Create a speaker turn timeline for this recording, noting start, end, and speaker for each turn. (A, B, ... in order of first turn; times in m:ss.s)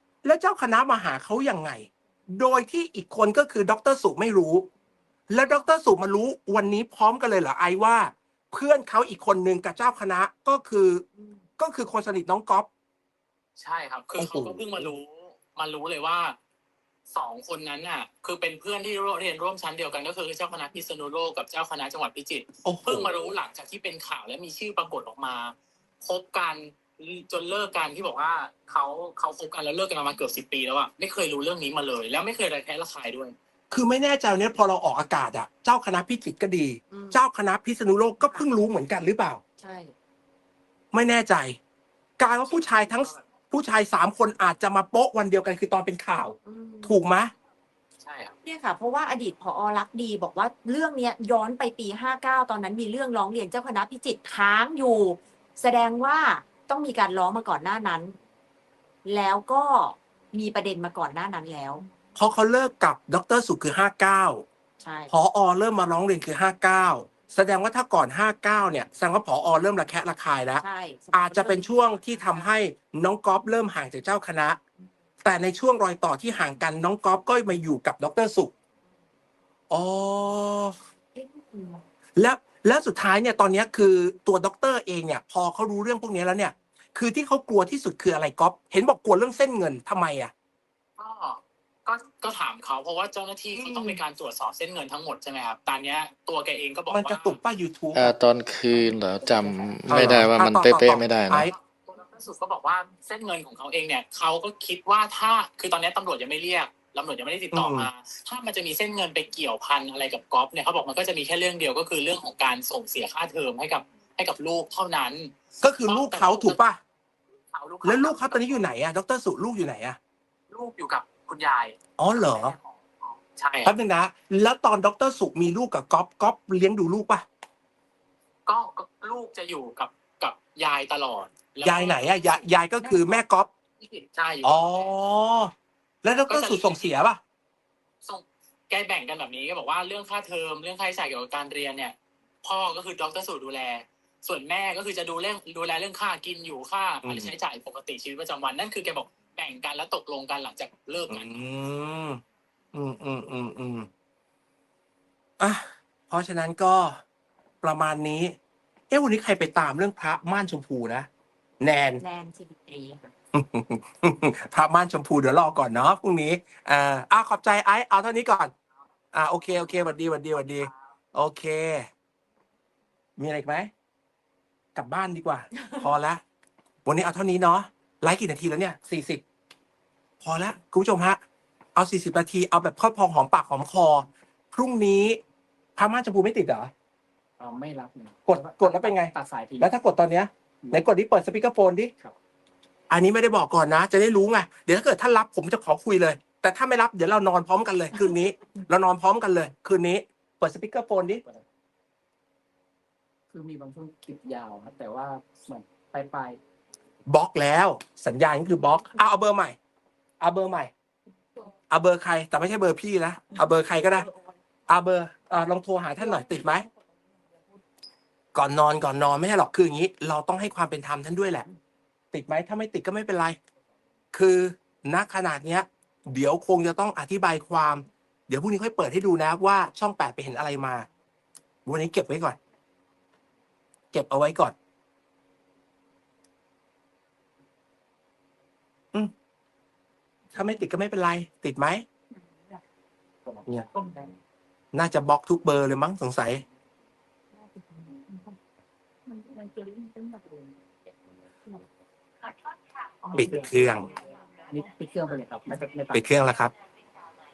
0:00.2-0:04.7 A
0:05.3-0:11.0 A
0:11.2-0:11.4 B
0:11.6-0:12.7 A
0:13.6-0:16.4 C
0:14.2-0:14.9 A
0:17.1-0:33.3 C
0:22.6-0:23.1 A
0:33.7-0:39.4 A
0:36.9-0:37.2 B
0:38.2-0:38.5 B
0:39.6-0:39.9 B
0:40.9-0:41.6 A
0:42.2-0:47.3 A
0:42.5-0:43.2 C
0:46.4-0:47.0 B
0:48.0-0:48.4 C
0:48.4-0:58.2 B
0:59.0-1:01.8 B
1:02.2-1:04.4 A
1:04.8-1:05.1 B
1:05.1-1:14.6 A
1:10.6-1:12.5 B
1:15.2-1:18.5 A
1:19.7-1:20.7 A
1:21.1-1:21.8 B
1:22.2-1:30.3 A
1:31.0-1:37.4 C
1:33.5-1:34.0 A
1:36.9-1:38.1 A
1:37.9-1:41.5 D
1:39.9-1:41.5 A
1:41.5-1:56.6 C
1:47.5-1:47.9 A
1:55.6-1:56.8 A
1:57.5-1:58.7 C
1:57.8-2:00.0 A
2:00.5-2:03.7 C
2:02.0-2:02.5 A
2:03.6-2:07.2 A
2:08.4-2:13.2 C
2:11.6-2:13.5 A
2:13.8-2:14.9 C
2:14.4-2:15.5 A
2:16.0-2:17.2 A
2:16.3-2:16.9 C
2:18.0-2:31.3 C
2:27.0-2:27.3 A
2:31.1-2:32.2 A
2:32.7-2:33.9 A
2:35.4-2:37.0 A
2:37.6-2:38.4 A
2:38.9-2:41.1 A
2:41.6-2:42.0 A
2:42.0-2:43.1 B
2:43.3-2:48.5 A
2:49.1-2:51.9 A
2:53.2-2:53.7 A
2:54.7-2:56.2 A
2:55.6-2:55.9 B
2:56.8-2:59.2 A
3:00.2-3:01.2 A
3:01.8-3:05.2 A
3:05.8-3:06.7 A
3:07.4-3:09.7 E
3:08.3-3:11.9 A
3:12.9-3:21.2 A
3:23.3-3:26.4 E
3:27.1-3:29.6 A
3:30.2-3:30.7 A
3:31.7-3:34.1 A
3:34.7-3:36.6 A
3:36.0-3:36.5 E
3:38.3-3:41.4 A
3:42.1-3:43.4 A
3:44.1-3:50.9 A
3:51.6-3:52.4 A
3:53.9-3:54.5 A
4:00.3-4:01.8 A
4:03.4-4:04.1 E
4:04.7-4:06.4 A
4:09.1-4:10.4 E
4:13.0-4:16.1 E
4:13.1-4:13.9 A
4:15.9-4:16.5 A